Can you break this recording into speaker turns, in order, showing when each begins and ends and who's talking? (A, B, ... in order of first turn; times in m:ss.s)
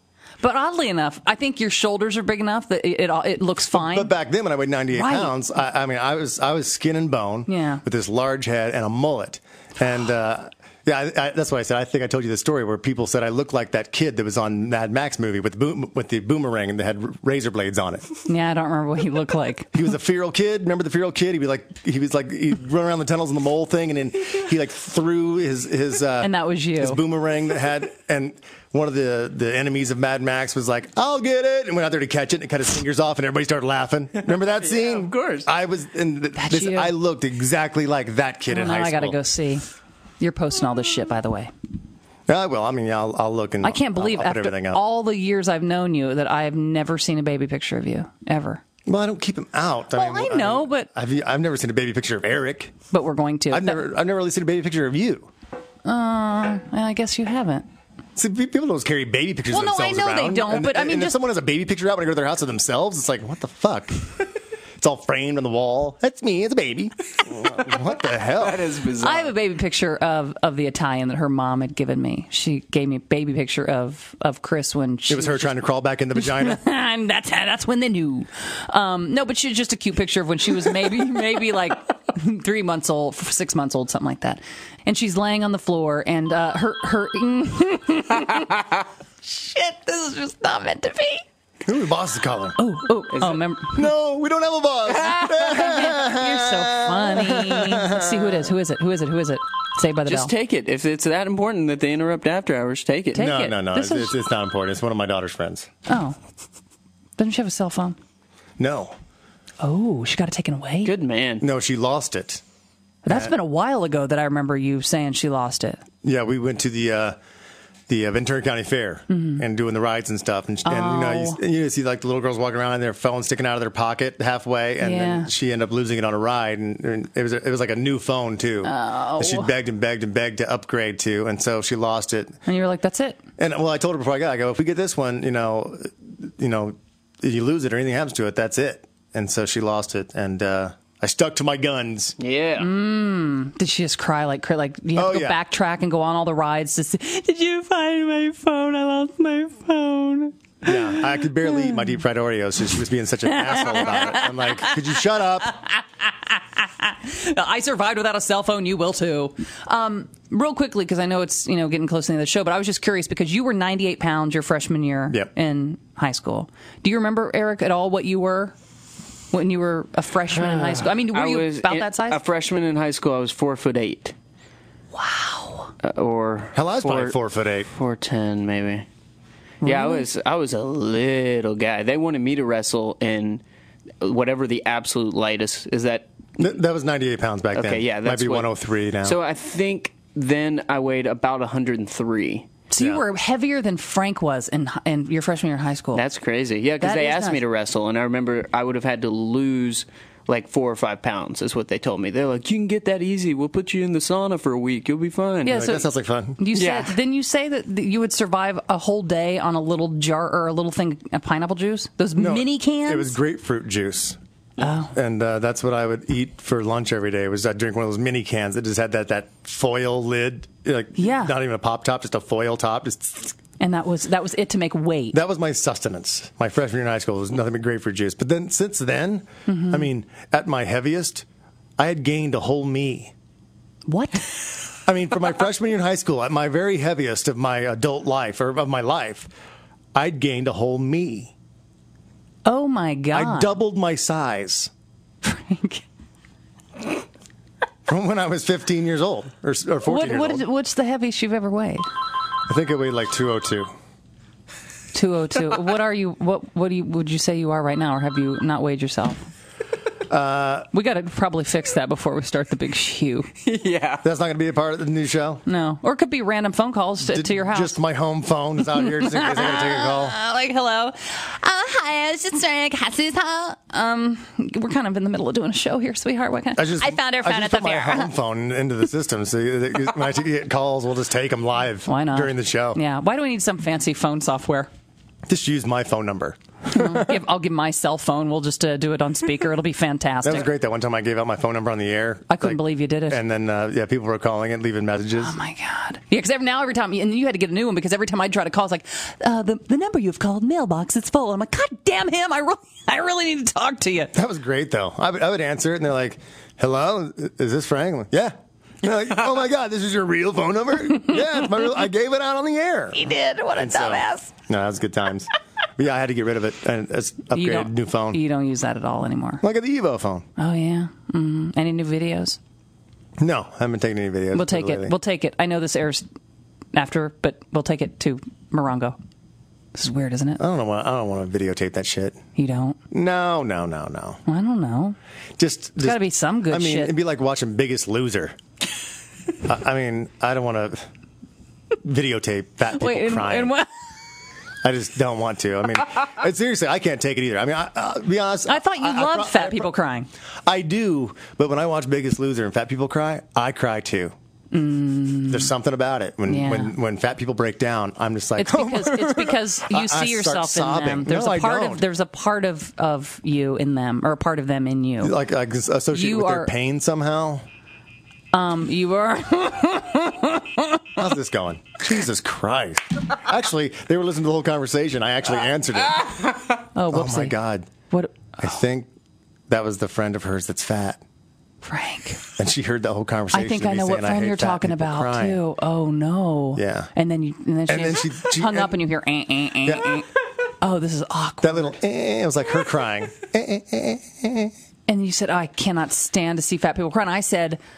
0:00.4-0:04.1 A
0:03.7-0:18.1 B
0:04.9-0:05.3 A
0:07.5-0:07.8 A
0:18.3-0:19.7 A
0:19.7-0:39.2 B
0:26.2-0:27.0 A
0:34.2-0:35.5 C
0:36.3-0:36.9 A
0:38.5-0:39.6 A
0:40.2-0:41.5 A
0:42.3-0:44.8 B
0:43.6-0:48.6 A
0:48.8-0:52.7 B
0:49.9-0:50.9 A
0:52.9-0:53.8 A
0:53.5-0:55.3 B
0:55.8-0:57.6 A
0:58.2-1:04.2 B
0:59.5-1:01.2 A
1:04.8-1:08.6 B
1:08.4-1:09.3 C
1:09.0-1:15.6 A
1:15.1-1:16.6 B
1:16.2-1:28.6 A
1:29.2-1:31.2 A
1:31.6-1:32.6 B
1:32.6-1:33.9 A
1:33.7-1:38.5 B
1:35.2-1:40.3 A
1:40.0-1:43.3 C
1:43.1-1:44.1 A
1:43.1-1:45.7 B
1:45.9-1:46.2 A
1:47.2-1:48.0 A
1:48.6-1:48.9 B
1:49.6-1:50.9 A
1:50.8-1:51.4 C
1:51.4-1:52.4 B
1:53.0-1:55.8 A
1:53.1-1:53.3 B
1:56.0-1:57.2 B
1:57.9-2:12.4 B
1:59.1-1:59.4 A
2:00.6-2:01.4 A
2:04.8-2:05.3 A
2:08.6-2:09.5 A
2:12.4-2:13.2 A
2:13.4-2:22.2 B
2:22.2-2:22.7 C
2:22.6-2:30.7 A
2:25.0-2:25.4 B
2:30.6-2:35.5 B
2:33.3-2:34.8 A
2:35.6-2:48.5 A
2:49.3-2:52.2 A
2:50.3-2:54.1 C
2:54.9-2:55.7 A
2:55.8-2:57.2 C
2:56.5-2:57.7 B
2:57.7-2:58.9 C
2:59.6-3:00.0 A
2:59.6-3:03.4 C
3:04.0-3:06.1 C
3:06.4-3:09.2 B
3:07.5-3:08.5 C
3:09.0-3:12.5 C
3:12.7-3:16.0 A
3:12.8-3:13.0 B
3:15.9-3:25.6 C
3:16.8-3:17.4 A
3:25.4-3:33.2 A
3:25.5-3:26.4 B
3:26.5-3:27.0 C
3:32.2-3:34.2 B
3:34.6-3:34.9 A
3:34.9-3:43.4 B
3:41.0-3:41.3 A
3:43.6-3:45.2 A
3:45.1-3:51.2 B
3:49.5-3:49.9 A
3:51.8-3:53.1 B
3:53.9-3:54.3 A
3:54.8-3:59.3 B
3:59.9-4:01.3 B
4:02.4-4:03.5 A
4:03.1-4:04.7 B
4:05.2-4:05.8 A
4:07.9-4:10.4 B
4:09.8-4:11.8 A
4:12.5-4:13.7 B
4:14.9-4:19.2 A
4:20.1-4:20.7 B
4:20.7-4:23.3 A
4:23.4-4:24.0 C
4:24.0-4:25.4 B
4:25.4-4:27.8 A
4:27.0-4:30.2 B
4:28.7-4:38.1 A
4:36.6-4:42.8 B
4:41.8-4:44.7 A
4:45.2-4:47.2 B
4:46.7-4:50.5 A
4:50.2-4:55.4 B
4:52.3-4:53.2 A
4:55.2-5:04.1 A
5:04.1-5:13.0 B
5:12.9-5:14.3 A
5:13.5-5:18.2 B
5:17.3-5:19.4 A
5:19.4-5:20.2 B
5:20.4-5:22.4 A
5:23.2-5:24.9 B
5:24.3-5:26.0 A
5:26.7-5:29.0 A
5:29.7-5:30.4 A
5:30.4-5:32.2 B
5:32.4-5:32.8 A
5:32.9-5:34.2 B
5:34.2-5:35.0 A
5:35.4-5:38.4 B
5:35.8-5:36.9 A
5:39.4-5:40.9 B
5:41.8-5:43.5 B
5:42.8-5:43.7 A
5:44.6-5:49.7 B
5:48.4-5:50.1 A
5:50.4-5:54.1 B
5:54.5-5:55.5 A
5:55.3-6:01.8 B
5:56.3-5:56.7 A
5:58.4-6:05.2 A
6:05.0-6:07.4 B
6:05.9-6:06.5 A
6:08.3-6:10.8 A
6:11.0-6:16.4 B
6:16.7-6:17.4 A
6:16.9-6:17.7 B
6:17.9-6:18.3 A
6:18.4-6:18.9 B
6:19.5-6:21.0 B
6:21.6-6:22.2 A
6:22.4-6:25.4 B
6:23.3-6:30.1 A
6:26.6-6:26.9 B
6:27.7-6:28.8 B
6:29.6-6:30.0 B
6:30.6-6:31.7 A
6:31.4-6:34.5 B
6:34.9-6:37.6 A